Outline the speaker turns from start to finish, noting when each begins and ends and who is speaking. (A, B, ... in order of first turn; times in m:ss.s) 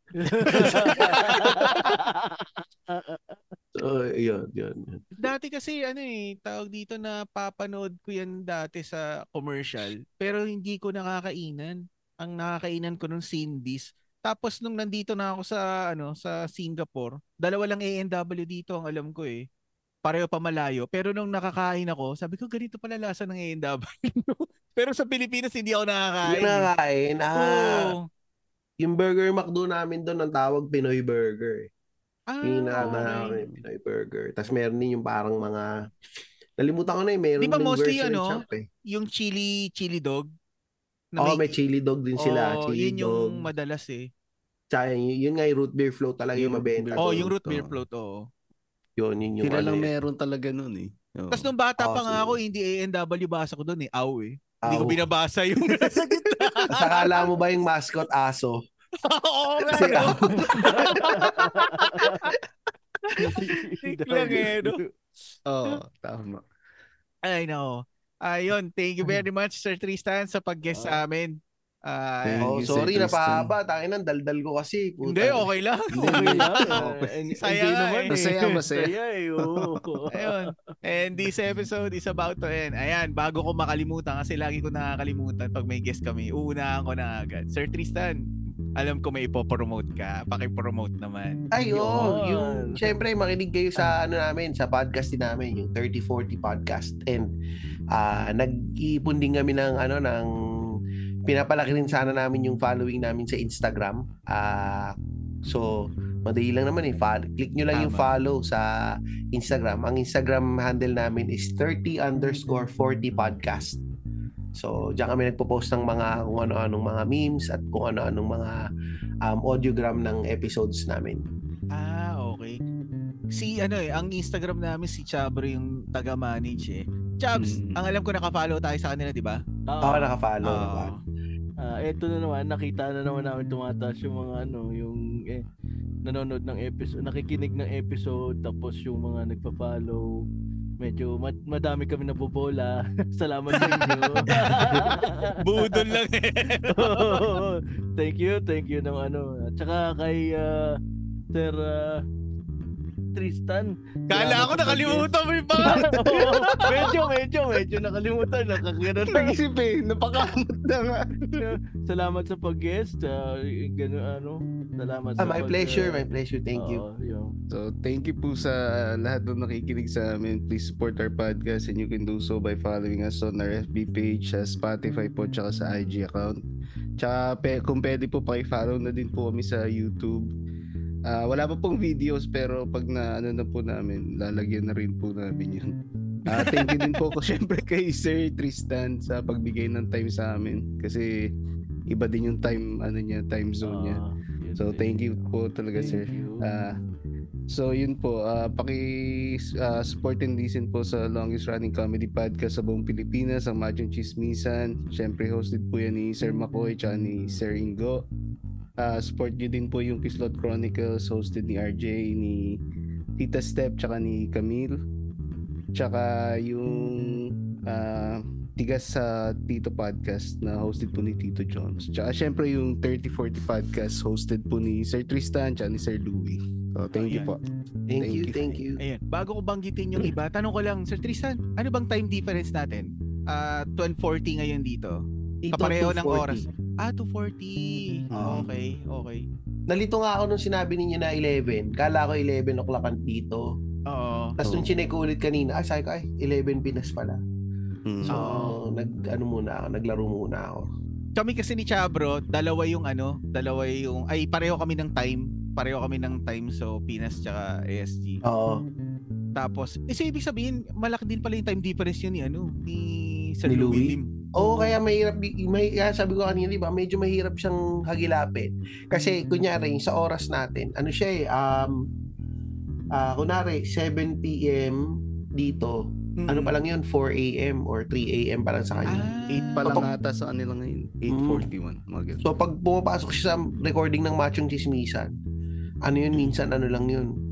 0:00.2-0:01.8 A
0:00.2-0:03.4 B
0:00.5-0:02.0 C
0:03.8-0:05.1 A
0:05.2-0:19.4 C
0:20.0-0:26.7 C
0:26.2-0:28.0 A
0:27.4-0:28.0 C
0:28.8-0:31.7 A
0:32.3-0:33.4 C
0:32.4-0:35.7 A
0:32.9-0:33.6 D
0:36.6-0:38.7 A
0:37.4-0:40.3 C
0:41.1-0:41.6 C
0:41.2-0:43.4 A
0:42.2-0:44.1 C
0:44.7-0:47.3 A
0:46.4-0:47.8 D
0:47.0-0:48.3 C
0:49.0-0:49.9 A
0:49.4-0:51.5 D
0:51.3-0:57.0 C
0:51.8-0:52.4 A
0:54.6-0:55.0 A
0:55.6-0:56.8 D
0:56.7-0:58.6 A
0:59.0-1:02.2 C
0:59.7-1:00.5 A
0:59.7-1:00.1 D
1:00.4-1:02.3 B
1:03.1-1:04.8 C
1:03.2-1:04.9 B
1:05.5-1:06.4 D
1:07.3-1:12.5 C
1:10.7-1:11.0 B
1:12.2-1:13.5 D
1:12.4-1:15.5 A
1:15.0-1:18.1 C
1:15.9-1:16.9 D
1:16.1-1:20.4 B
1:18.1-1:19.8 D
1:20.1-1:28.2 C
1:28.8-1:31.4 C
1:31.5-1:37.3 A
1:31.7-1:32.8 B
1:37.9-1:40.3 A
1:41.3-1:48.7 A
1:47.7-1:48.1 C
1:49.3-1:53.8 A
1:54.6-1:58.6 A
1:59.2-2:01.2 A
2:01.7-2:02.6 C
2:03.4-2:09.4 C
2:07.4-2:07.8 D
2:09.7-2:10.1 B
2:09.8-2:10.9 A
2:10.4-2:11.0 C
2:11.6-2:15.4 B
2:16.0-2:20.1 B
2:20.8-2:26.0 B
2:24.4-2:27.2 C
2:26.7-2:30.8 B
2:31.3-2:32.0 B
2:33.1-2:39.4 B
2:34.1-2:36.9 C
2:39.1-2:41.5 D
2:41.4-2:47.4 B
2:45.2-2:46.8 A
2:47.5-2:56.4 D
2:57.0-3:00.3 D
3:01.1-3:05.7 D
3:06.3-3:11.3 D
3:11.9-3:14.0 D
3:13.6-3:15.1 B
3:14.6-3:16.8 D
3:15.8-3:16.4 B
3:17.5-3:28.1 D
3:28.8-3:32.6 D
3:33.2-3:34.8 D
3:35.7-3:47.4 D
3:46.9-3:47.3 C
3:47.9-3:48.8 A
3:47.9-3:48.5 D
3:48.8-3:55.0 C
3:55.4-3:56.5 A
3:55.5-3:59.2 C
3:58.1-3:58.5 D
3:59.7-4:03.4 A
4:03.9-4:04.4 C
4:04.4-4:07.2 A
4:04.4-4:04.8 D
4:07.9-4:08.2 D
4:08.0-4:10.6 A
4:08.1-4:08.6 C
4:11.2-4:18.2 C
4:18.3-4:18.6 A
4:19.4-4:24.8 C
4:23.5-4:31.8 A
4:32.9-4:34.8 A
4:35.4-4:35.8 A
4:36.2-4:36.6 C
4:36.3-4:39.1 A
4:38.9-4:39.8 C
4:39.3-4:42.2 D
4:41.1-4:41.5 A
4:42.2-4:45.1 A
4:45.8-4:47.1 A